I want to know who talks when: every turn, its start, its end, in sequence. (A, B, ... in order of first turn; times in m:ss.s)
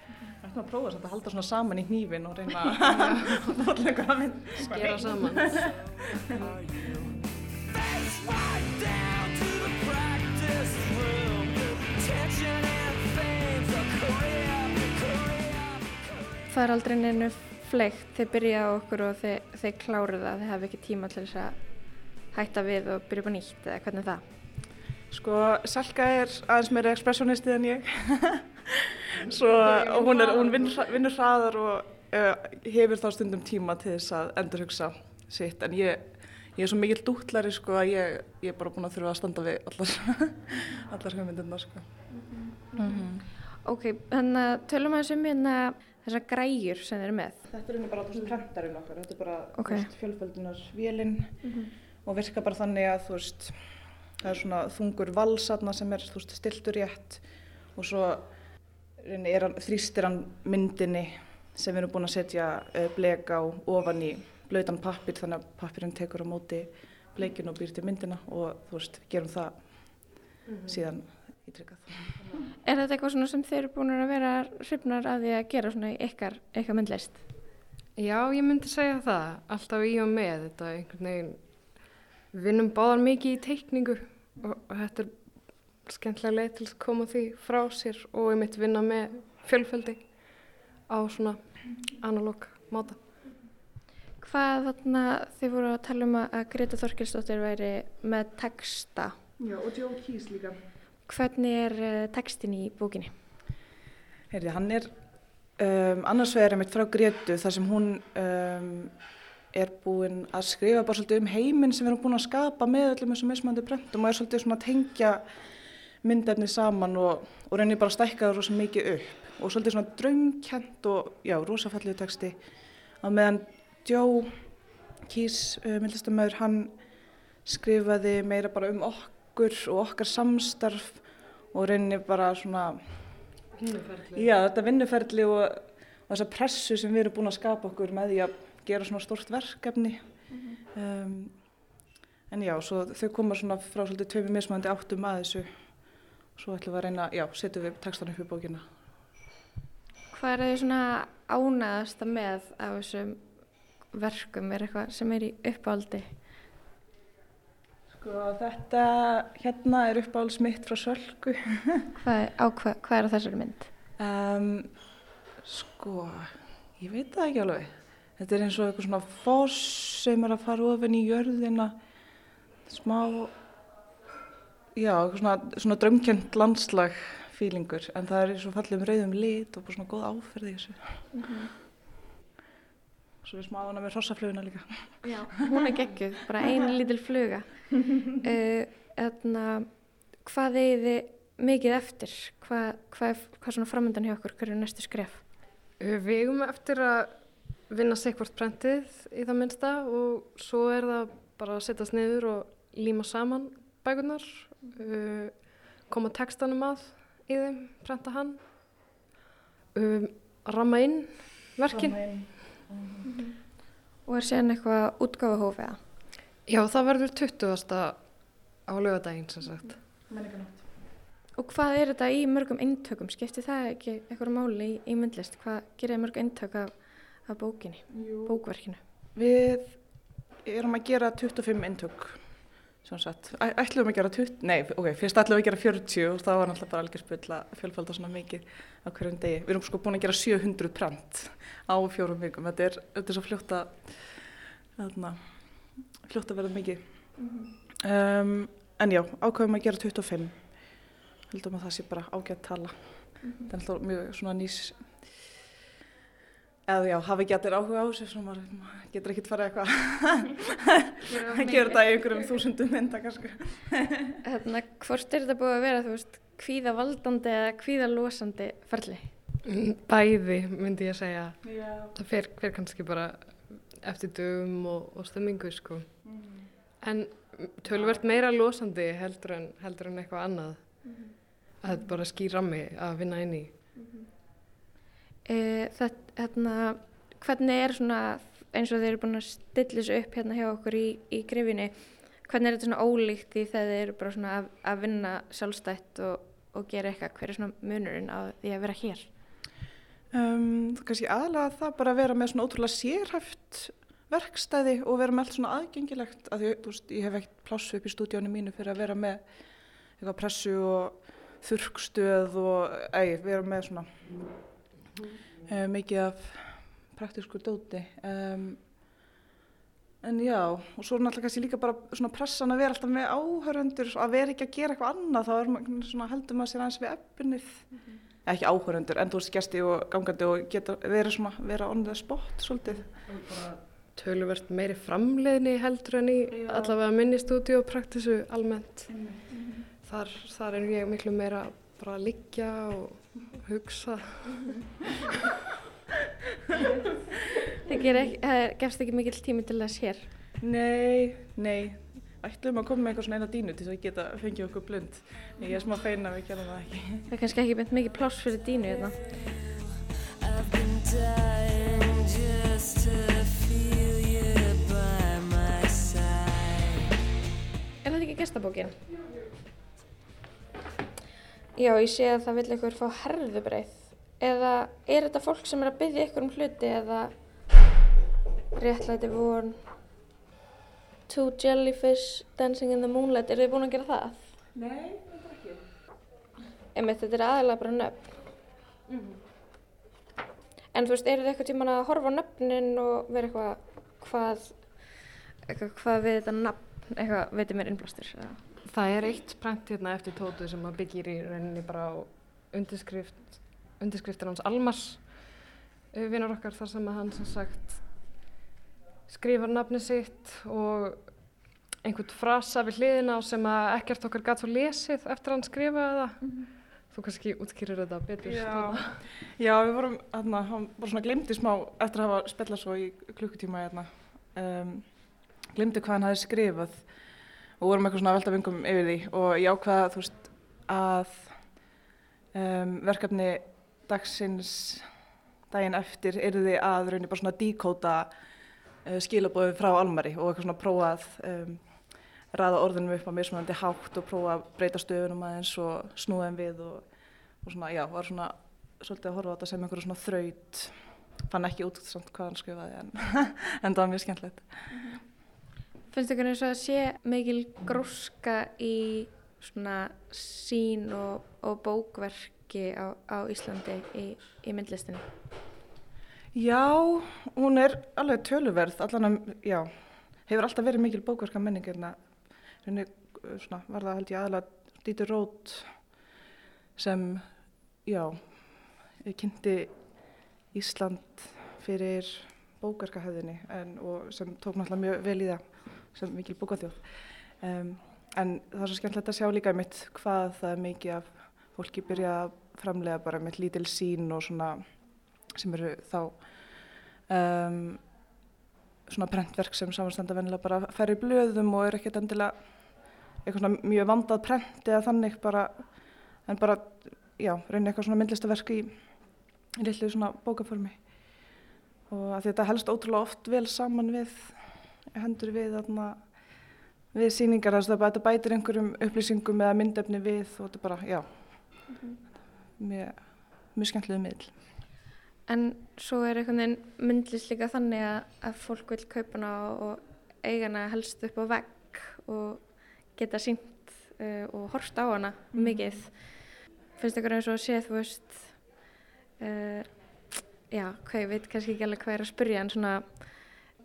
0:00.4-0:05.8 A
0:02.8-0:03.4 B
0:04.7-0:05.6 B
0:04.7-0:16.3 C
0:16.5-0:21.6 D
0:22.3-0:24.2 D
0:25.1-0:41.9 A
0:29.6-0:30.5 B
0:42.2-0:43.0 D
0:42.8-0:43.2 A
0:43.6-0:47.4 D
0:47.5-0:51.5 A
0:49.6-0:49.9 D
0:51.4-0:51.7 D
0:52.0-0:53.6 A
0:54.2-0:57.2 A
0:57.8-0:58.3 A
0:59.0-1:12.2 A
1:10.5-1:10.9 B
1:12.6-1:17.2 D
1:18.0-1:33.0 B
1:34.2-1:39.1 D
1:39.4-1:40.6 A
1:41.1-1:43.1 D
1:44.3-1:44.9 A
1:45.6-1:48.9 A
1:49.5-1:55.2 A
1:56.0-2:02.4 A
2:03.0-2:04.4 A
2:05.1-2:06.8 A
2:07.4-2:12.8 A
2:13.6-2:14.3 B
2:14.1-2:20.0 A
2:20.3-2:20.6 D
2:20.7-2:21.3 A
2:22.3-2:25.5 A
2:26.4-2:28.7 A
2:30.1-2:33.2 D
2:33.9-2:36.2 D
2:37.9-2:41.8 A
2:42.0-2:43.7 D
2:44.0-2:44.7 A
2:45.4-2:51.8 A
2:52.7-2:53.3 A
2:54.8-3:01.0 A
3:01.1-3:01.5 D
3:03.2-3:05.3 A
3:05.0-3:09.7 D
3:10.2-3:15.2 D
3:15.8-3:28.5 B
3:29.8-3:32.4 B
3:31.7-3:33.1 A
3:33.1-3:33.4 D
3:34.1-3:35.8 D
3:36.5-3:39.8 B
3:40.1-3:40.7 A
3:41.4-3:48.8 D
3:47.9-3:48.4 A
3:49.2-3:49.8 A
3:50.4-3:52.2 A
3:52.8-4:05.2 A
4:06.0-4:06.8 A
4:07.2-4:07.5 D
4:07.8-4:10.8 A
4:11.3-4:14.9 A
4:13.2-4:13.5 D
4:16.7-4:24.1 A
4:21.1-4:22.3 D
4:24.2-4:29.1 D
4:29.4-4:36.0 B
4:31.4-4:31.9 A
4:36.1-4:36.4 A
4:36.8-4:41.0 B
4:37.7-4:38.0 A
4:40.9-4:41.1 D
4:41.6-4:43.5 B
4:43.8-4:44.1 D
4:45.3-4:59.1 D
5:00.1-5:09.2 A
5:10.0-5:13.9 A
5:15.4-5:18.6 A
5:20.0-5:27.7 A
5:28.2-5:33.4 A
5:32.8-5:38.9 B
5:36.3-5:36.8 A
5:38.9-5:39.5 A
5:39.8-5:44.5 B
5:47.6-5:50.1 D
5:50.4-5:57.1 A
5:57.1-5:59.0 D
6:00.2-6:07.0 C
6:07.8-6:08.8 D
6:11.6-6:17.1 D
6:18.6-6:19.6 D
6:21.1-6:24.2 D
6:24.5-6:25.6 A
6:26.8-6:28.2 D
6:30.7-6:34.7 D
6:35.5-6:38.4 D
6:38.7-6:45.4 B
6:45.9-6:47.9 B
6:49.1-6:51.2 B
6:51.8-6:56.3 B
6:56.9-6:59.0 B
6:58.2-7:04.9 A
7:05.5-7:06.9 A
7:07.6-7:11.4 A
7:12.3-7:14.9 A
7:15.5-7:18.1 A
7:18.8-7:26.8 A
7:27.4-7:30.8 A
7:31.3-7:34.6 A
7:35.9-7:45.0 D
7:46.3-7:49.7 A
7:50.2-7:52.0 A
7:52.6-7:55.7 A
7:56.8-7:57.3 A
7:57.8-7:59.8 A
8:00.5-8:06.9 A
8:07.4-8:14.6 A
8:15.3-8:16.6 A
8:17.1-8:17.9 A
8:18.9-8:22.4 A
8:23.2-8:25.7 A
8:26.2-8:28.8 A
8:29.6-8:30.8 A
8:31.9-8:34.4 A
8:34.9-8:36.0 A
8:36.9-8:41.5 A
8:42.6-8:44.3 A
8:45.3-8:56.2 D
8:55.3-8:55.9 A
8:56.8-8:58.4 D
8:59.2-8:59.7 D
9:00.5-9:03.1 D